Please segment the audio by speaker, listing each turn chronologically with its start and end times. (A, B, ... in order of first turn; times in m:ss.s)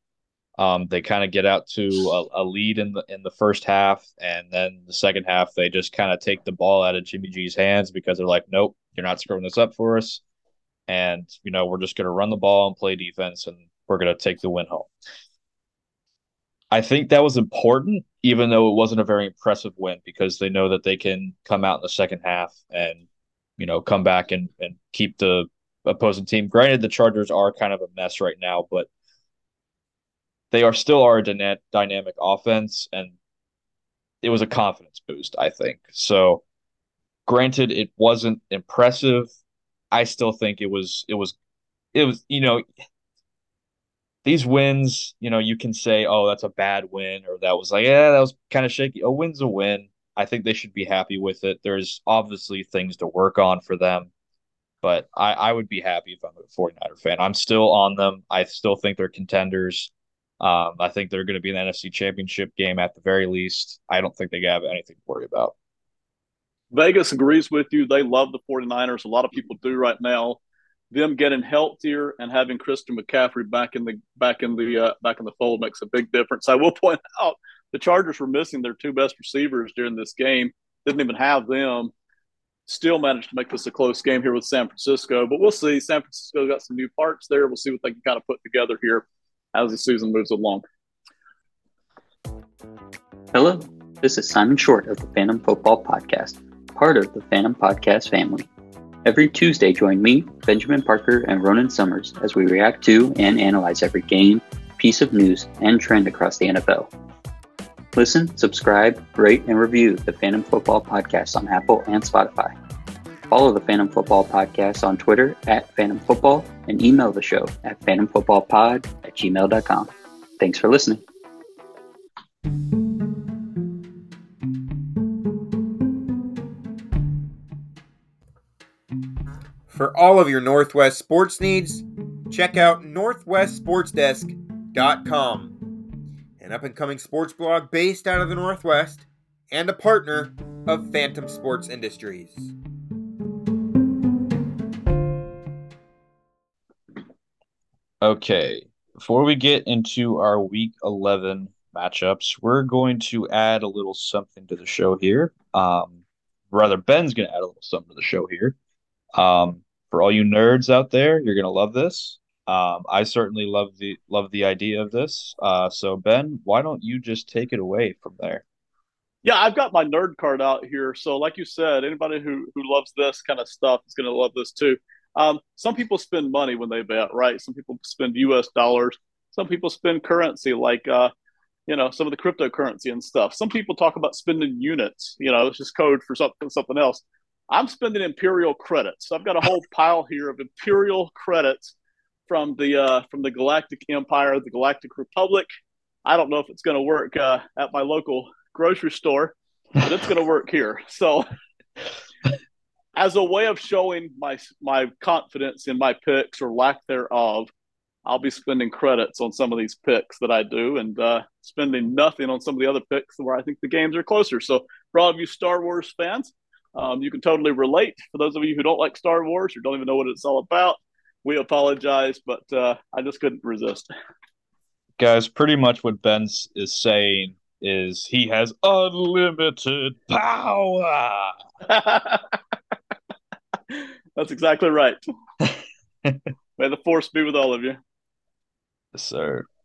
0:00.6-0:10.2 A
0:10.9-0:14.9 A
0:16.7-0:23.0 A
0:23.6-0:28.9 A
0:30.5-0:33.1 A
0:34.2-0:36.4 A
0:37.3-0:39.3 A
0:39.9-0:41.3 A
0:41.9-0:42.6 A
0:44.2-0:54.1 A
0:54.8-1:05.5 A
1:06.7-1:10.4 B
1:10.9-1:21.9 B
1:22.7-1:30.6 B
1:33.3-1:38.5 C
1:39.0-1:46.9 C
1:47.9-1:52.6 C
1:53.3-2:01.0 C
2:09.7-2:15.5 D
2:16.4-2:22.5 D
2:28.0-2:36.0 A
2:36.5-2:38.6 A
2:39.2-2:48.4 A
2:49.2-3:01.1 B
3:01.7-3:11.7 B
3:12.3-3:15.5 B
3:16.0-3:21.2 B
3:23.0-3:27.5 B
3:28.0-3:43.9 B
3:45.0-3:51.4 A
3:51.6-3:52.4 B
3:53.7-3:55.0 B
3:55.4-3:56.3 A
3:56.6-3:57.8 B
3:58.9-3:59.5 A